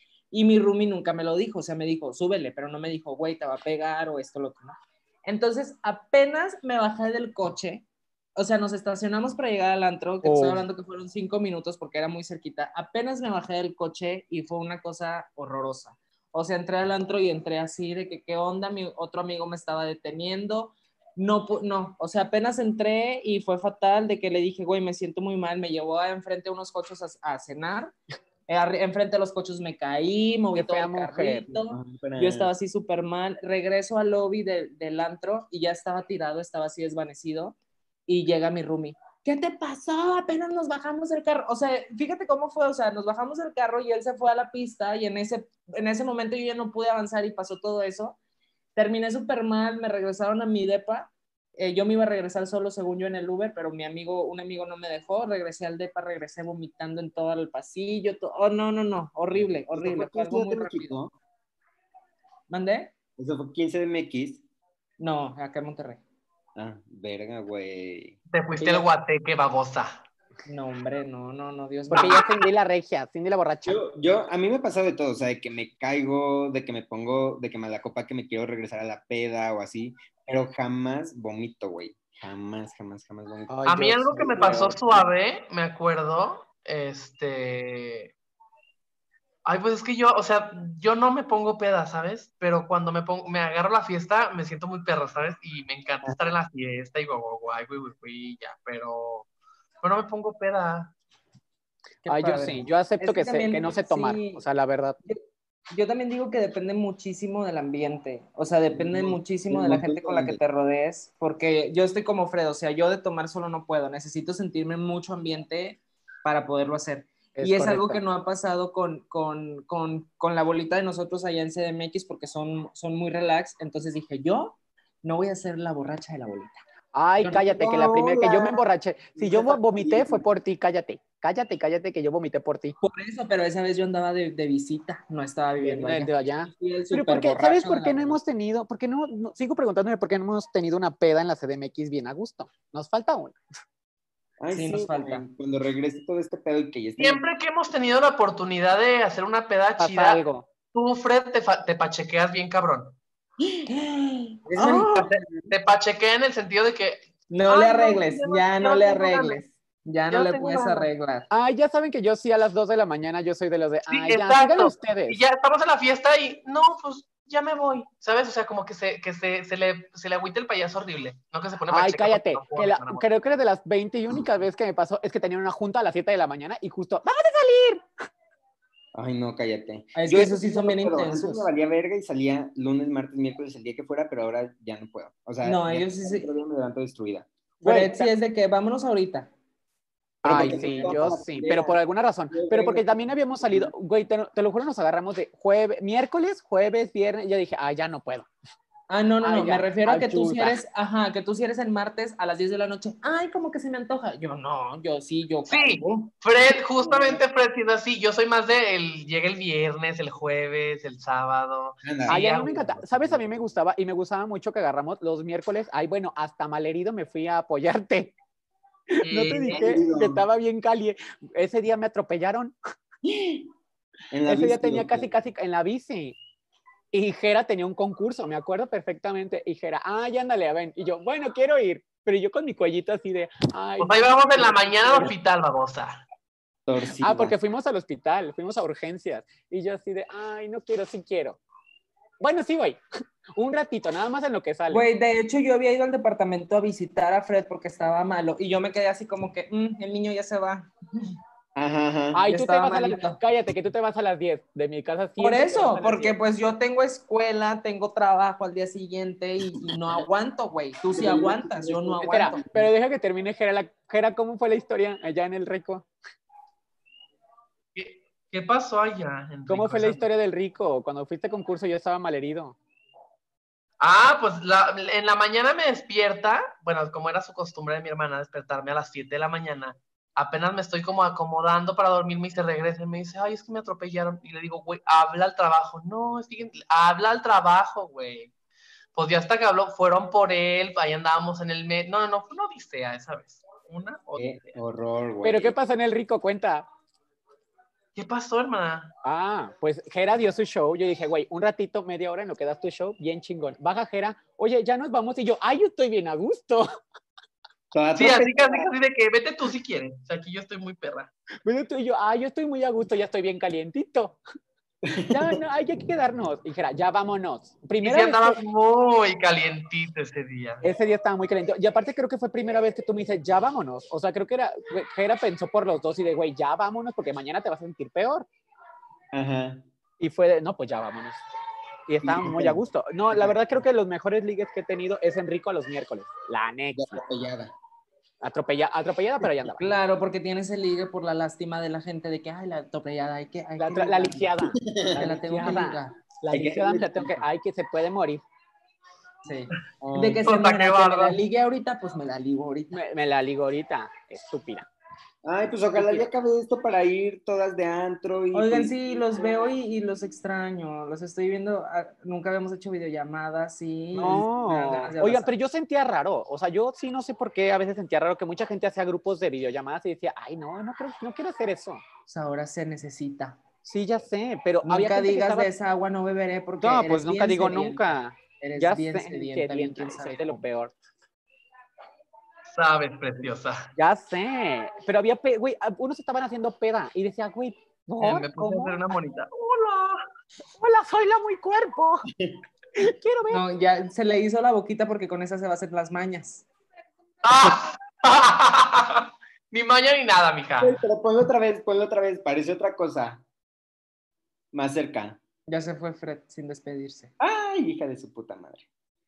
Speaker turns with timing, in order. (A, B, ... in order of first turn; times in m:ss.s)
0:00.3-0:07.8 A
0:08.4-0:28.0 A
0:10.2-0:10.6 B
0:28.5-0:37.6 A
0:30.6-0:31.5 B
0:31.5-0:32.5 C
0:38.1-0:48.2 A
0:48.8-1:01.0 A
0:59.3-1:01.1 C
1:02.5-1:02.9 A
1:03.2-1:04.4 C
1:05.0-1:06.0 A
1:06.6-1:08.2 C
1:08.3-1:10.0 D
1:08.6-1:08.9 B
1:10.5-1:12.4 A
1:11.9-1:13.8 B
1:13.7-1:23.6 C
1:23.5-1:24.8 B
1:23.7-1:28.1 D
1:24.2-1:25.0 C
1:29.4-1:39.3 D
1:36.0-1:36.4 C
1:39.8-1:40.9 D
1:42.0-1:44.4 A
1:42.1-1:45.0 B
1:45.7-2:06.6 A
1:48.7-1:50.4 C
1:57.4-1:58.0 B
2:06.9-2:12.8 B
2:07.3-2:08.6 C
2:09.2-2:10.2 C
2:12.8-2:18.2 A
2:15.6-2:23.4 B
2:24.4-2:27.2 C
2:24.5-2:25.2 A
2:27.0-2:30.2 D
2:29.8-2:30.5 B
2:30.7-2:33.0 D
2:33.7-2:34.9 A
2:34.6-2:35.5 C
2:34.8-2:39.4 D
2:37.3-2:41.3 A
2:40.1-2:40.9 D
2:41.3-2:45.2 B
2:43.9-2:53.1 D
2:51.7-2:57.8 B
2:58.9-3:07.3 C
3:00.0-3:01.5 A
3:05.4-3:06.3 A
3:07.6-3:08.1 B
3:07.6-3:09.3 A
3:10.2-3:18.3 B
3:10.2-3:11.8 C
3:10.3-3:11.7 A
3:12.3-3:13.7 C
3:18.9-3:26.1 A
3:19.2-3:20.6 B
3:25.5-3:32.5 D
3:31.8-3:33.5 C
3:32.1-3:38.1 B
3:38.9-3:42.5 B
3:39.0-3:39.6 D
3:39.5-3:40.2 C
3:43.0-3:43.5 C
3:44.1-3:45.1 C
3:44.3-3:46.2 B
3:46.9-3:55.1 B
3:53.8-3:56.0 D
3:56.7-3:57.3 C
3:57.0-4:01.4 B
4:02.2-4:02.8 B
4:03.4-4:04.8 B
4:04.7-4:11.1 A
4:11.6-4:12.2 C
4:12.1-4:16.2 B
4:12.3-4:13.2 A
4:15.2-4:22.4 A
4:20.9-4:22.7 C
4:22.1-4:25.9 B
4:27.8-4:30.1 D
4:29.5-4:32.6 B
4:33.8-4:48.3 D
4:49.0-4:54.6 D
4:54.2-4:55.6 C
4:55.2-4:56.7 B
4:58.0-4:58.9 D
4:59.0-5:06.7 B
5:07.7-5:08.7 C
5:08.0-5:11.1 D
5:11.4-5:14.2 B
5:14.8-5:15.4 C
5:15.1-5:18.4 B
5:17.8-5:20.6 D
5:20.6-5:28.3 B
5:29.1-5:29.6 C
5:30.0-5:31.2 B
5:31.9-5:37.0 B
5:32.0-5:33.6 C
5:36.8-5:37.5 C
5:38.2-5:39.8 B
5:39.5-5:44.3 A
5:43.6-5:48.2 B
5:44.6-5:45.6 C
5:44.9-5:46.0 A
5:46.3-5:47.2 C
5:49.3-5:52.8 A
5:49.8-5:50.2 C
5:50.2-5:51.2 D
5:52.7-5:54.7 B
5:55.2-5:59.6 C
5:55.7-5:56.1 B
5:58.3-6:05.3 A
6:03.9-6:11.8 B
6:12.1-6:13.4 A
6:13.6-6:15.5 B
6:14.6-6:20.4 A
6:16.6-6:20.7 B
6:22.5-6:23.7 D
6:23.8-6:28.8 B
6:28.0-6:30.0 D
6:30.6-6:32.1 B
6:32.8-6:33.4 B
6:33.3-6:36.4 A
6:37.2-6:40.8 D
6:40.6-6:43.2 C
6:44.5-6:45.2 C
6:45.5-6:47.1 A
6:47.2-6:48.6 C